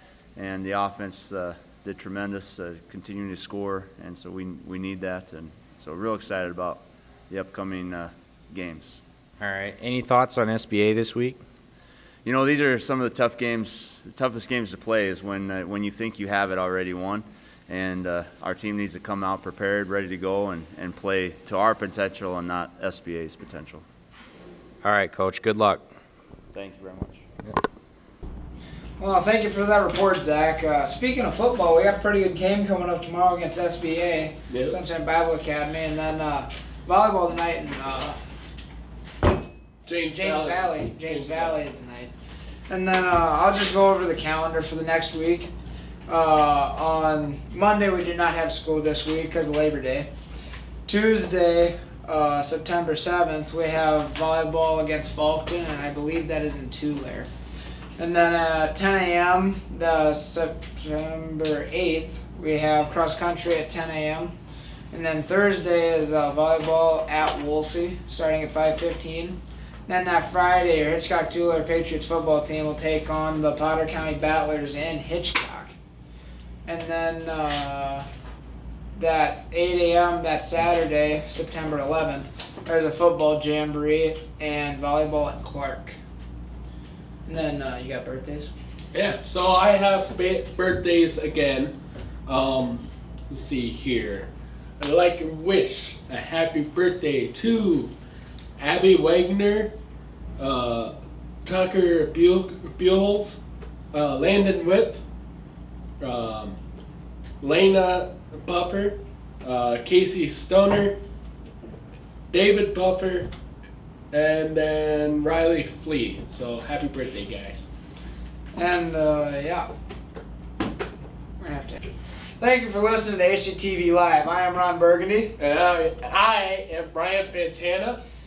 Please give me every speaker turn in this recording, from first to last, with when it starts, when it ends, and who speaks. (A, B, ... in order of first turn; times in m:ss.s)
0:00.4-0:09.0 A
0:09.4-0:11.4 B
0:12.2-0:23.9 A
0:24.8-0:25.9 B
0:26.5-0:27.2 A
0:29.0-0:38.2 C
0:34.5-0:34.8 D
0:39.9-0:41.6 D
0:40.0-0:42.1 C
0:42.7-0:45.5 C
0:46.1-0:50.1 C
0:50.9-0:57.3 C
0:58.0-1:04.4 C
1:04.9-1:15.8 C
1:16.7-1:18.1 C
1:19.0-1:26.0 C
1:27.3-1:28.5 C
1:28.9-1:31.8 D
1:32.3-1:37.9 D
1:38.6-1:39.7 D
1:40.4-1:40.9 D
1:41.4-1:43.4 D
1:43.9-1:45.0 D
1:46.0-1:46.6 D
1:47.4-1:51.0 D
1:52.3-1:53.3 D
1:54.1-1:57.6 D
1:58.6-1:59.7 C
2:01.4-2:01.8 C
2:02.4-2:05.4 C
2:05.4-2:08.0 D